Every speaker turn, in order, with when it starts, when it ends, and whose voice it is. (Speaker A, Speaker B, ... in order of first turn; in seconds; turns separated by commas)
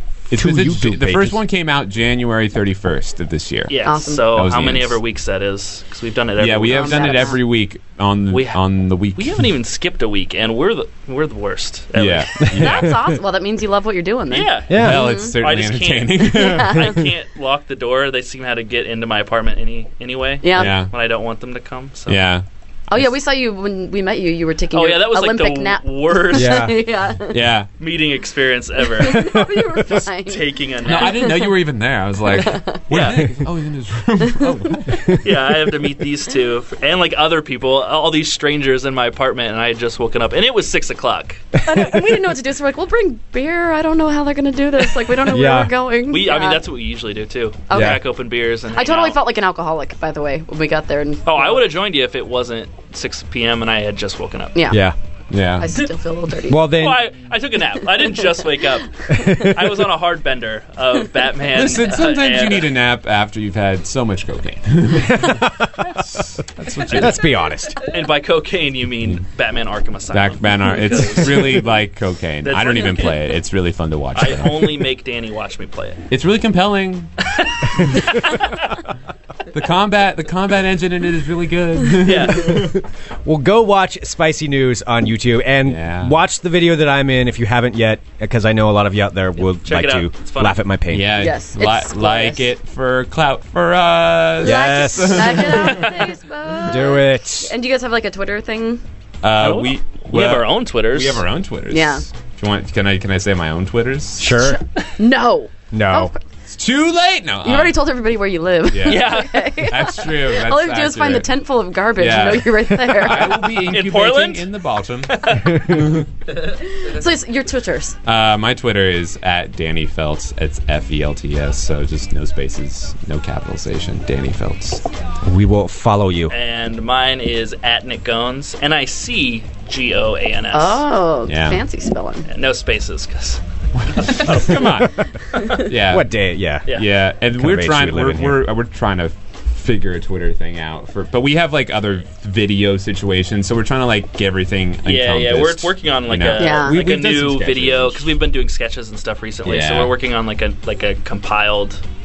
Speaker A: 0.3-5.0, Speaker B: 0.3-1.4, Speaker C: 3.7-7.4, Speaker D: 3.8-4.2, Speaker A: 6.4-9.5, Speaker D: 6.7-7.4, Speaker C: 8.3-8.6, Speaker C: 9.1-12.6, Speaker A: 11.9-12.9, Speaker B: 12.4-13.1, Speaker D: 12.5-15.3, Speaker C: 14.3-22.3, Speaker B: 14.7-15.1, Speaker A: 14.7-17.0, Speaker D: 16.3-17.0, Speaker D: 20.4-20.8, Speaker A: 20.5-20.9, Speaker A: 22.1-23.0, Speaker D: 22.9-27.4, Speaker C: 24.7-26.6, Speaker B: 26.3-26.8, Speaker A: 27.3-27.7, Speaker C: 27.8-29.3, Speaker D: 29.0-31.6, Speaker C: 30.2-31.4, Speaker A: 30.8-35.1, Speaker D: 32.3-32.8, Speaker C: 32.9-33.3, Speaker D: 34.4-35.1, Speaker B: 35.0-35.2, Speaker C: 35.2-41.5, Speaker D: 41.6-46.6, Speaker B: 45.2-45.7, Speaker C: 46.1-49.2, Speaker D: 47.7-48.0, Speaker B: 47.7-48.0, Speaker D: 48.7-51.7, Speaker C: 51.2-54.6, Speaker D: 54.5-54.8, Speaker B: 54.7-55.0, Speaker A: 55.3-55.7, Speaker D: 55.6-56.7, Speaker B: 56.5-57.1, Speaker C: 56.7-62.8, Speaker B: 59.1-59.8, Speaker A: 61.4-67.3, Speaker B: 65.0-65.8, Speaker B: 66.8-67.8, Speaker C: 67.8-71.8, Speaker A: 70.1-74.9, Speaker C: 72.4-73.4, Speaker C: 74.1-76.0, Speaker A: 76.1-77.1, Speaker C: 77.4-78.5, Speaker A: 79.5-82.7, Speaker C: 82.0-82.7, Speaker B: 83.2-91.2, Speaker A: 85.6-86.2, Speaker C: 89.6-90.6, Speaker A: 90.8-95.9, Speaker D: 91.2-92.5, Speaker B: 94.4-95.6, Speaker D: 94.4-98.8, Speaker C: 95.6-96.1, Speaker B: 96.7-97.5, Speaker A: 99.2-104.4, Speaker C: 99.3-101.3, Speaker D: 101.7-102.0, Speaker B: 104.2-104.6, Speaker D: 104.3-106.1, Speaker B: 105.7-106.1, Speaker A: 106.5-107.9, Speaker D: 107.4-113.4, Speaker A: 108.7-111.3, Speaker C: 108.8-109.7, Speaker A: 111.9-116.1, Speaker C: 113.0-114.5, Speaker C: 115.1-115.6, Speaker B: 115.5-115.8, Speaker D: 116.6-118.0, Speaker A: 118.0-124.8, Speaker B: 125.2-126.3, Speaker C: 126.3-130.8, Speaker D: 130.5-132.3, Speaker A: 131.2-131.6, Speaker C: 132.3-135.6, Speaker A: 133.8-134.9, Speaker A: 135.6-136.1, Speaker B: 135.7-136.7, Speaker A: 136.7-148.2, Speaker B: 137.3-138.4, Speaker C: 144.8-151.8, Speaker D: 146.4-146.8, Speaker A: 149.4-150.0